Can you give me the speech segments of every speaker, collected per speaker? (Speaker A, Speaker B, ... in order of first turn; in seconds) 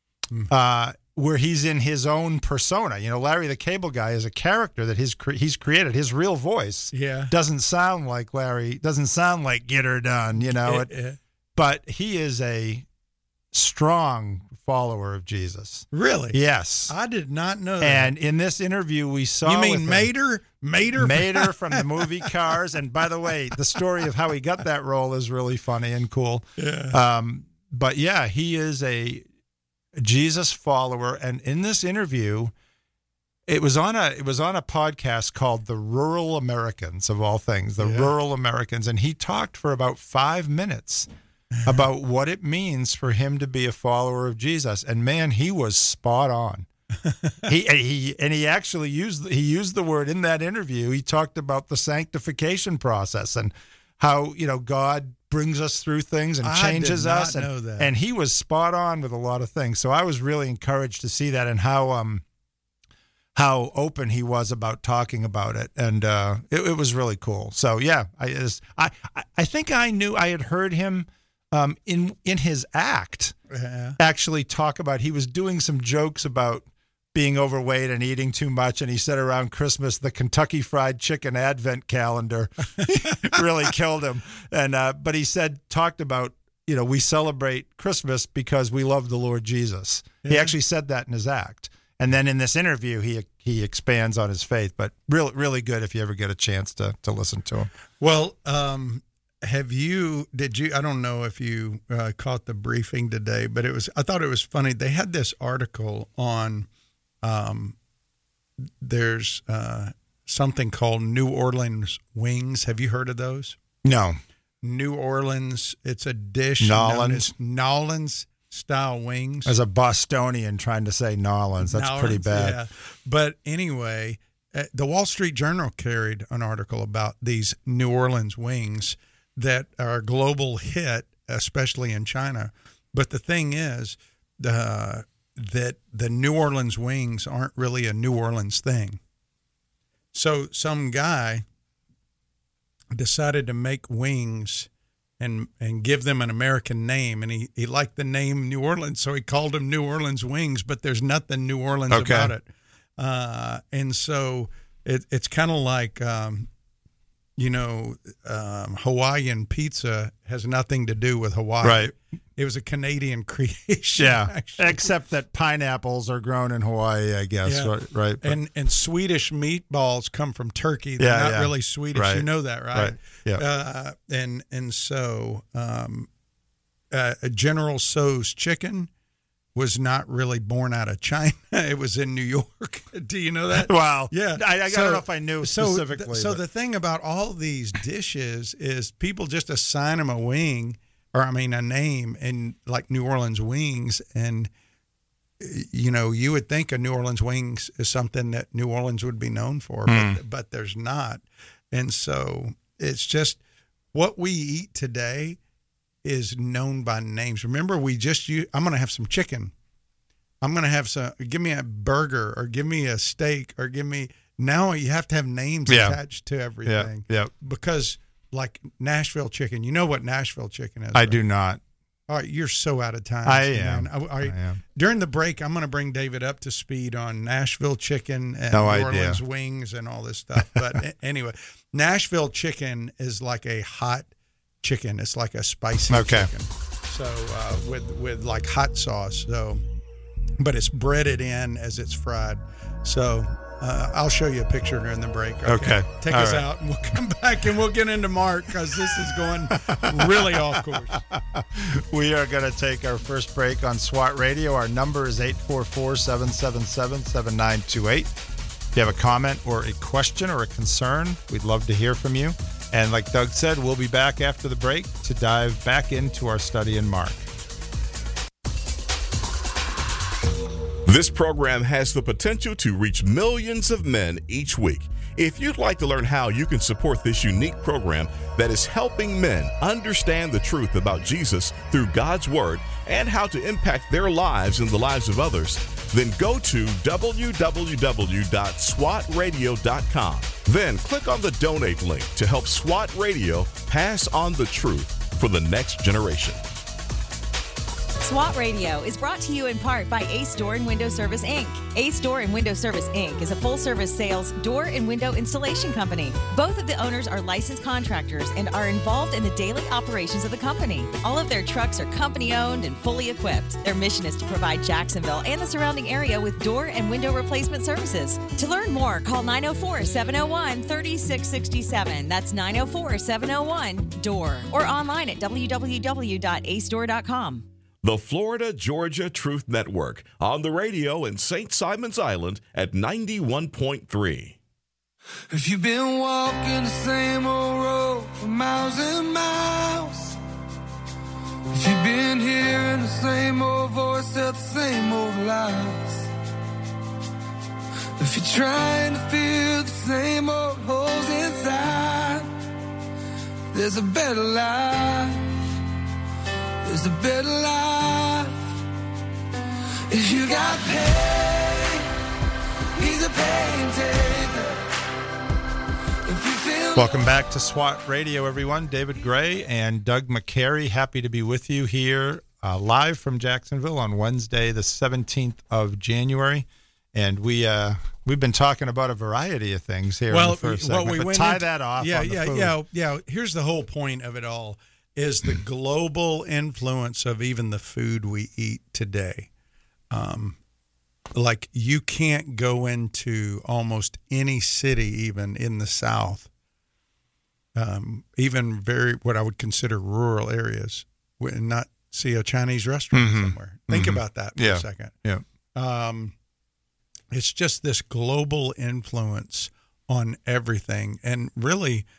Speaker A: 0.5-10.9, 11.6-12.8, 13.5-16.9, 17.8-20.1, 21.0-29.2, 30.0-32.5, 33.5-41.1, 41.6-46.7, 47.5-62.2, 63.4-73.4, 74.0-97.7, 113.8-114.2, 116.6-117.3, 119.5-122.6, 151.9-152.3, 161.6-161.9, 164.0-168.4, 171.0-173.4, 183.5-186.4, 199.9-200.2, 215.7-216.0, 216.7-217.3, 220.9-221.6, 223.2-224.6, 228.5-229.2, 230.4-230.7, 235.9-236.3, 245.5-246.5, 249.7-250.6, 251.2-258.1, 258.8-267.2, 366.8-382.6, 402.9-405.2
Speaker B: 6.9-7.3, 10.4-11.2, 15.9-18.1, 19.5-22.3, 26.6-27.0, 37.8-38.1, 47.0-47.5, 56.4-57.9, 73.5-74.0, 83.0-83.3, 90.2-90.5, 98.0-106.7, 107.2-107.8, 108.8-113.6, 114.6-119.5, 121.6-139.0, 140.1-141.4, 142.9-152.5, 153.0-156.5, 157.4-164.9, 167.4-176.1, 176.9-178.9, 179.6-194.5, 195.4-203.4, 203.9-205.4, 206.0-209.5, 210.4-221.2, 222.1-234.1, 234.6-239.6, 240.4-251.0, 380.1-389.3, 389.9-390.4, 391.1-396.3, 397.6-404.9, 405.6-406.1, 407.1-411.9
Speaker C: 270.9-296.4, 327.8-334.4
Speaker D: 298.0-327.5
Speaker E: 335.3-340.2, 341.5-346.1, 348.0-352.3, 353.5-355.3, 356.6-358.4, 359.9-361.9, 362.8-364.6, 366.1-367.1